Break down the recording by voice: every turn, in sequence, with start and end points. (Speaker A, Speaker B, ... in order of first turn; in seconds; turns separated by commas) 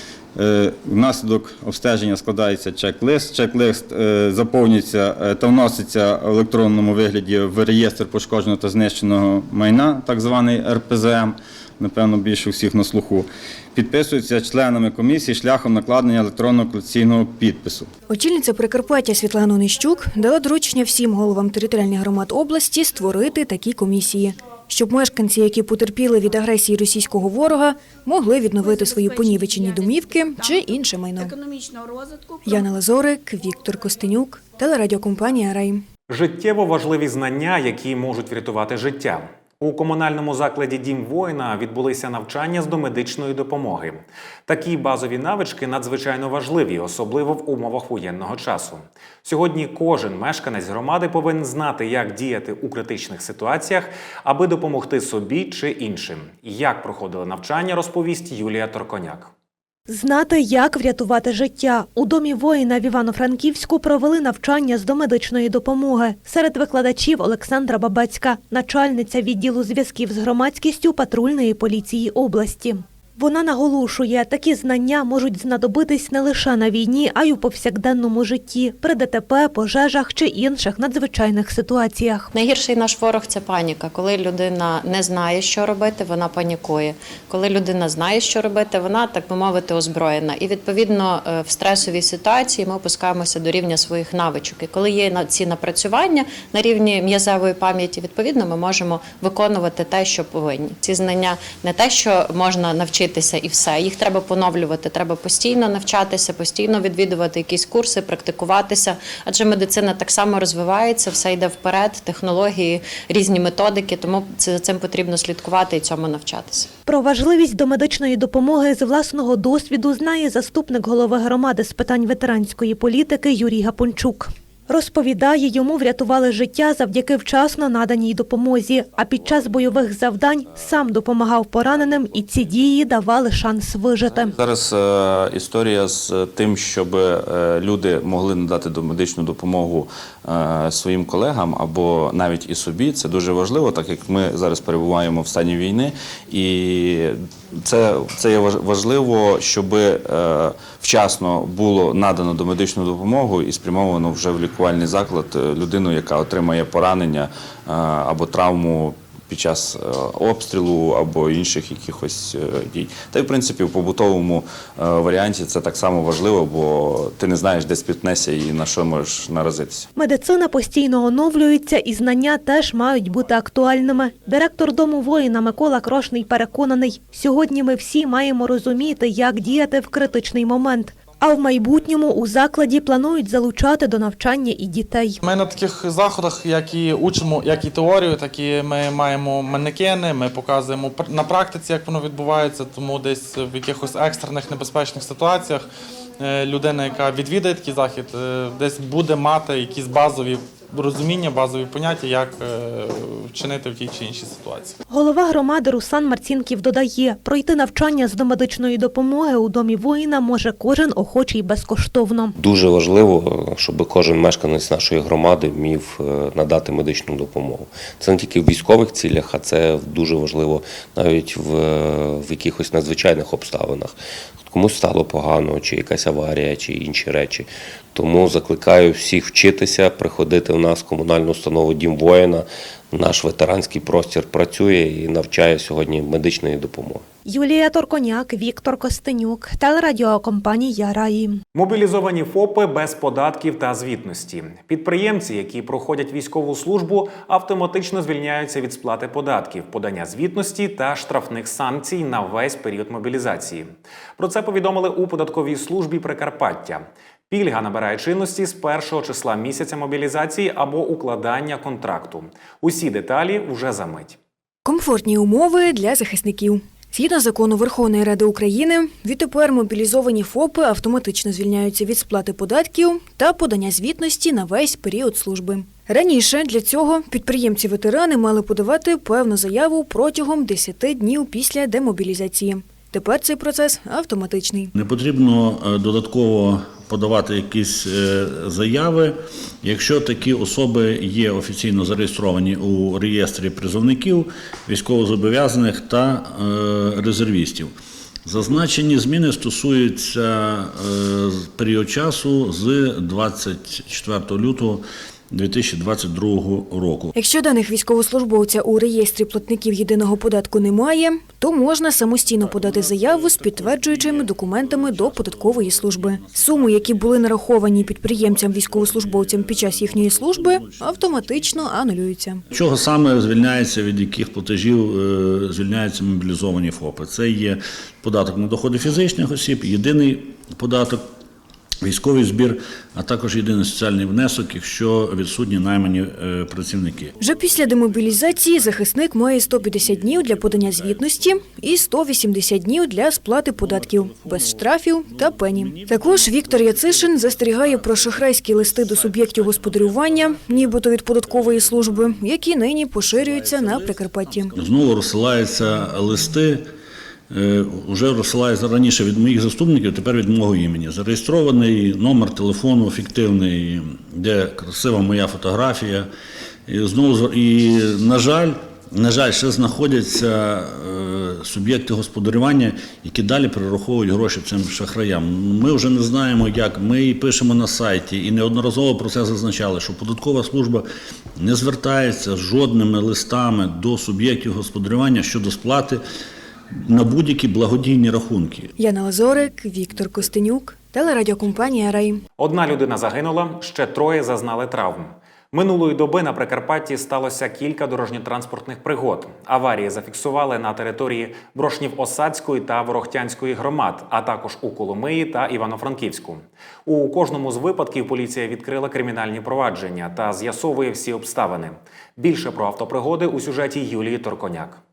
Speaker A: 0.3-17.9, Speaker B: 18.1-31.4, Speaker B: 32.4-35.9, Speaker C: 36.1-59.3, Speaker D: 59.9-82.3, Speaker E: 82.3-116.7, Speaker D: 116.9-134.3, Speaker F: 134.2-169.9, Speaker D: 170.0-185.2, Speaker G: 185.2-195.7, Speaker G: 196.2-204.8, Speaker D: 204.9-212.3, Speaker H: 212.4-237.0, Speaker D: 237.3-241.4, Speaker C: 241.5-264.2, Speaker B: 264.6-284.7, Speaker I: 284.8-297.7, Speaker I: 298.3-307.1, Speaker B: 307.1-322.4, Speaker I: 312.2-321.9, Speaker I: 322.5-331.1, Speaker I: 331.8-342.0, Speaker B: 337.2-354.5, Speaker I: 343.4-356.7, Speaker I: 357.3-366.1, Speaker I: 366.7-380.9, Speaker I: 381.4-386.0, Speaker I: 386.8-388.7, Speaker B: 388.8-392.2, Speaker C: 392.4-414.8